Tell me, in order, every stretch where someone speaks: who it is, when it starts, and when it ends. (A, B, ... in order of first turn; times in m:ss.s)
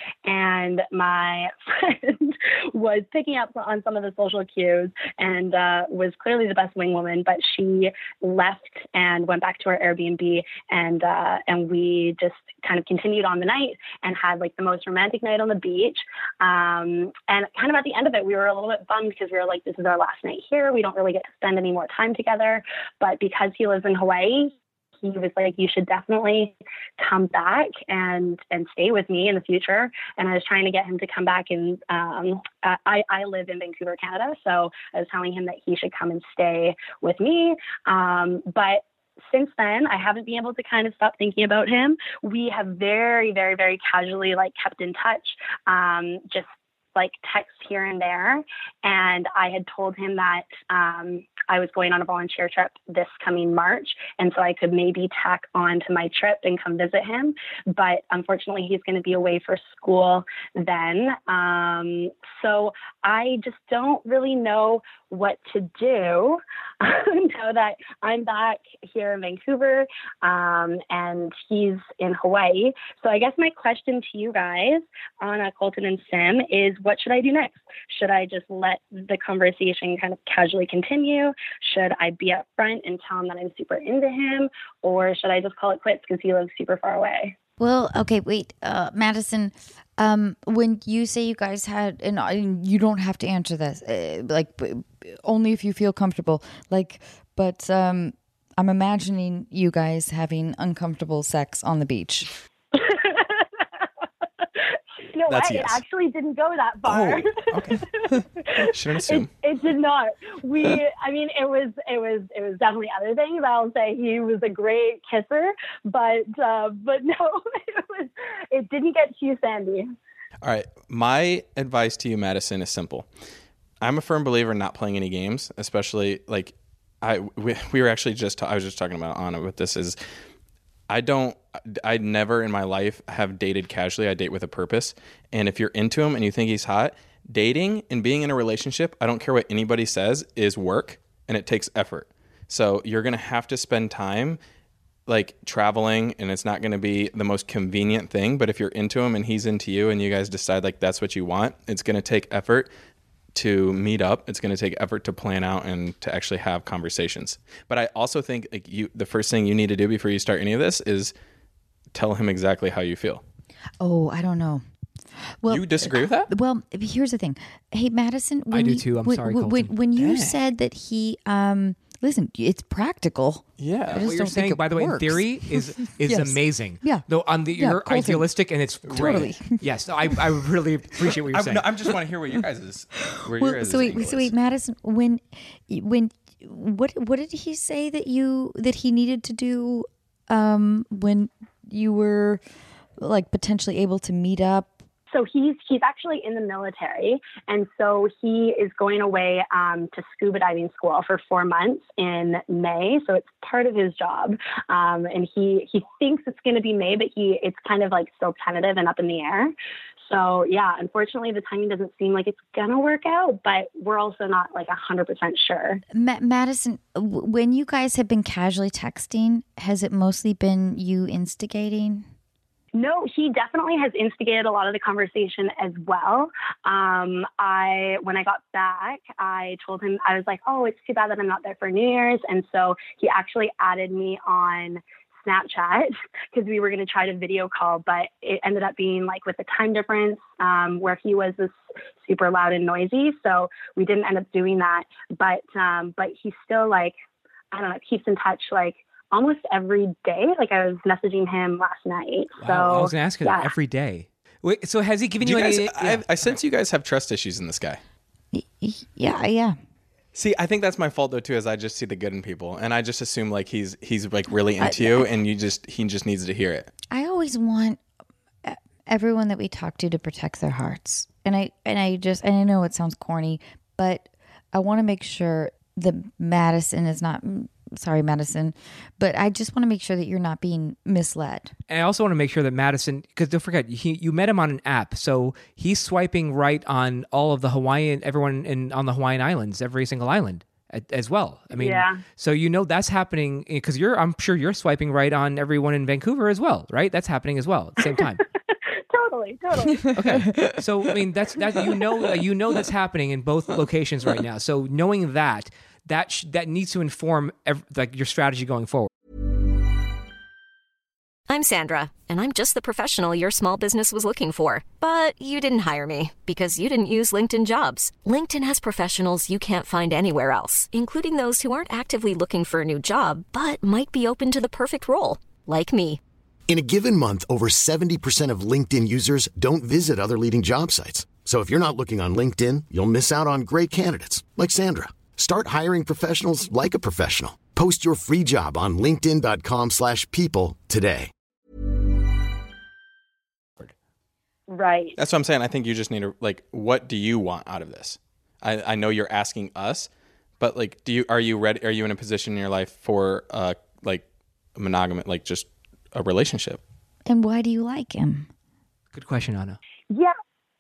0:00.2-1:27.4 A
1:27.6-1:42.3 B
1:42.7-1:43.5 A
1:45.1-1:47.9 A
1:45.3-1:45.8 C
1:46.8-1:47.8 C
1:48.4-2:00.0 A
1:48.6-1:49.3 C
2:00.4-2:03.1 C
2:03.8-2:10.0 C
2:10.9-2:24.4 C
2:25.1-2:32.7 C
2:33.3-2:41.1 C
2:41.9-2:43.2 C
2:43.8-2:44.6 B
2:45.4-2:58.3 B
2:45.5-2:46.3 C
2:48.5-2:50.2 D
2:53.6-2:54.0 C
2:54.0-3:01.7 D
2:58.9-2:59.6 B
2:58.9-2:59.3 C
3:01.3-3:04.3 C
3:03.3-3:12.4 B
3:13.0-3:14.8 B
3:15.1-3:29.5 A
3:30.0-3:35.8 A
3:35.9-3:42.1 B
3:42.8-4:07.0 A
4:07.5-4:13.5 A
4:12.4-4:16.3 D
4:15.2-4:17.8 C
4:18.3-4:19.6 B
4:20.2-4:26.7 C
4:24.6-4:25.1 B
4:26.9-4:27.8 B
4:28.4-4:41.5 B
4:41.7-4:58.2 D
4:51.5-4:52.0 A
4:58.9-4:59.9 A
4:59.9-5:08.9 D
5:11.3-5:26.0 E
5:26.5-5:41.1 F
5:44.5-5:45.0 A
5:45.0-5:49.9 C
5:50.4-5:54.0 C
5:54.6-5:56.6 C
5:57.1-5:58.3 B
5:58.9-5:59.6 D